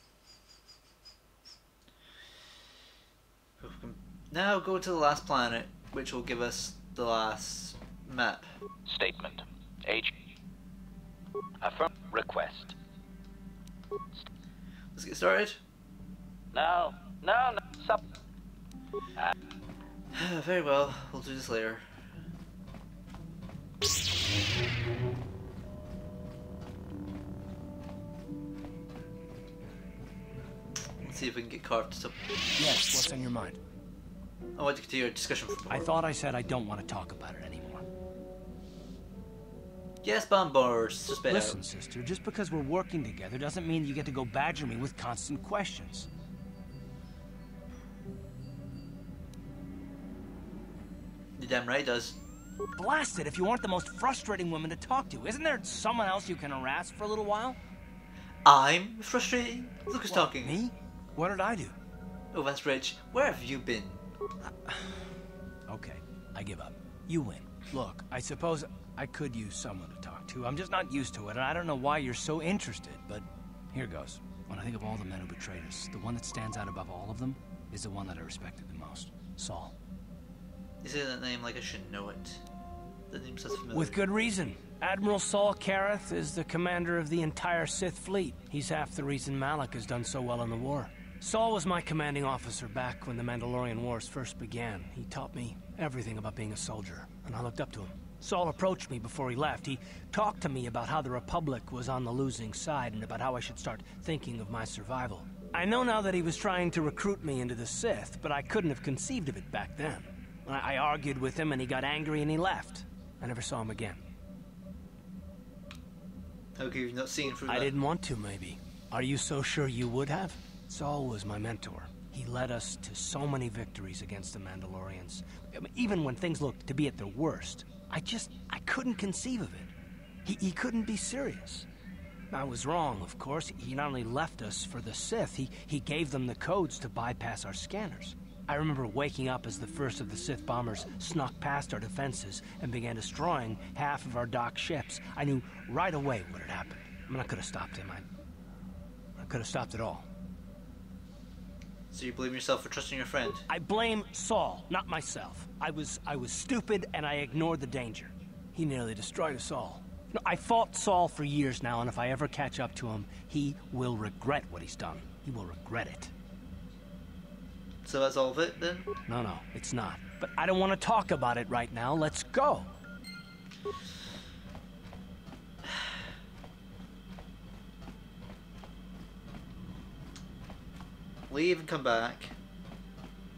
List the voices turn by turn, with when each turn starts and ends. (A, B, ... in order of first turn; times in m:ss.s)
0:03.6-0:08.5 A
0:08.9-0:10.1 B
0:11.6-0:12.8 B
0:15.0-0:15.6 A
0:16.5-0:18.0 B
0:20.1-0:21.8 A
0:31.0-0:32.2 A
0:32.6-0:33.6 C
0:34.6-0:35.9 A
0:35.7-0:37.8 C
0:40.0-0:41.6 A
0:41.3-0:46.1 C
0:51.4-0:52.2 A
0:52.8-0:57.6 C
0:58.4-1:00.6 A
1:00.1-1:01.8 C
1:02.3-1:04.0 A
1:04.6-1:05.0 C
1:05.7-1:19.7 C
1:20.8-1:22.4 A
1:23.1-1:24.0 A
1:23.7-1:54.0 C
1:56.6-1:57.8 A
1:57.5-2:09.7 C
2:10.2-2:11.7 C
2:12.3-2:28.1 C
2:29.2-2:30.1 C
2:31.9-2:33.5 A
2:33.5-2:46.1 C
2:47.8-2:48.9 A
2:49.1-2:52.7 C
3:01.3-3:02.3 A